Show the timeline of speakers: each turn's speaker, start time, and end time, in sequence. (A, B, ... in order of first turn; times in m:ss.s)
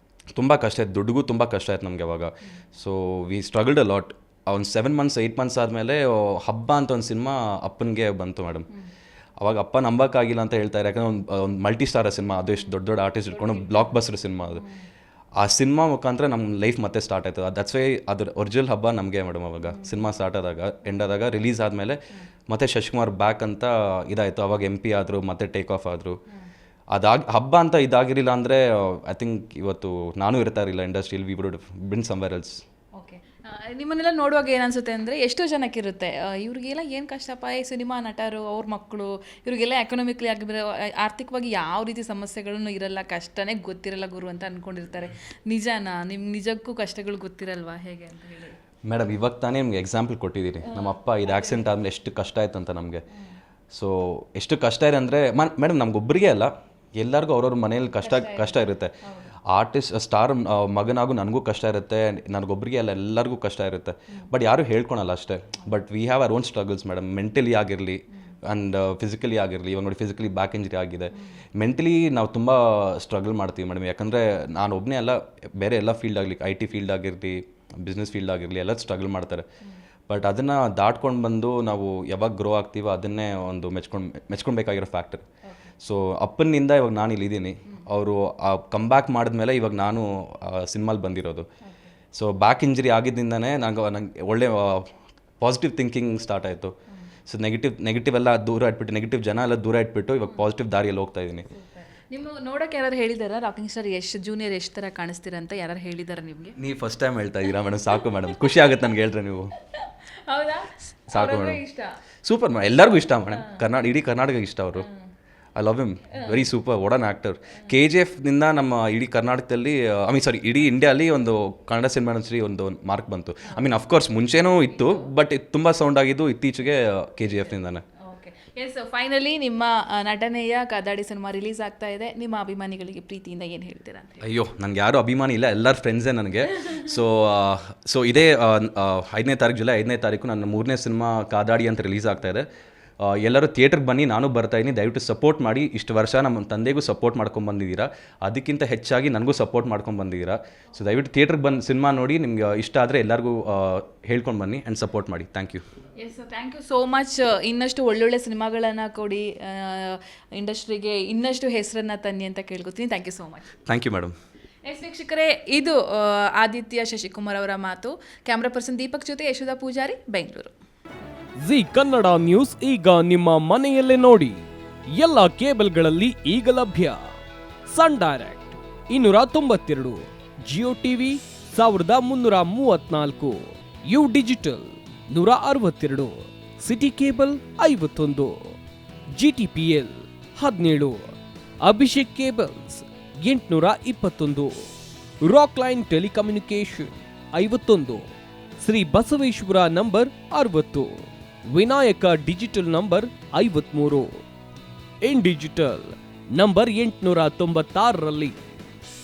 0:00.3-0:08.7 A
0:09.4-0:14.6 A
0:13.3-0:13.9 B
0:14.5-0:14.8 B
0:15.4-0:26.2 A
0:26.9-0:32.6 A
0:33.0-0:48.6 B
0:48.8-0:53.0 A
0:50.6-0:51.6 B
0:53.7-0:58.9 A
0:58.0-0:59.3 B
0:59.5-1:19.4 A
1:20.1-1:25.2 A
1:25.4-1:25.7 B
1:25.8-1:31.5 A
1:31.6-1:31.9 B
1:32.1-1:36.7 A
1:37.3-1:41.5 A
1:41.5-1:46.6 B
1:46.6-1:49.5 A
1:48.1-1:48.6 B
1:49.7-1:51.9 B
1:51.1-1:51.6 A
1:52.2-1:54.9 A
1:53.3-1:53.6 B
1:54.8-1:55.0 B
1:55.5-2:07.8 A
1:56.1-1:56.4 B
2:04.7-2:05.1 B
2:08.0-2:14.3 B
2:14.2-2:22.4 A
2:23.0-2:35.6 A
2:36.0-2:43.5 B
2:43.6-2:44.1 A
2:44.7-2:50.5 B
2:51.4-2:54.4 C
2:55.0-2:57.1 C
2:57.7-3:08.6 C
3:09.1-3:14.7 C
3:15.2-3:18.1 C
3:18.6-3:24.2 C
3:25.0-3:28.4 C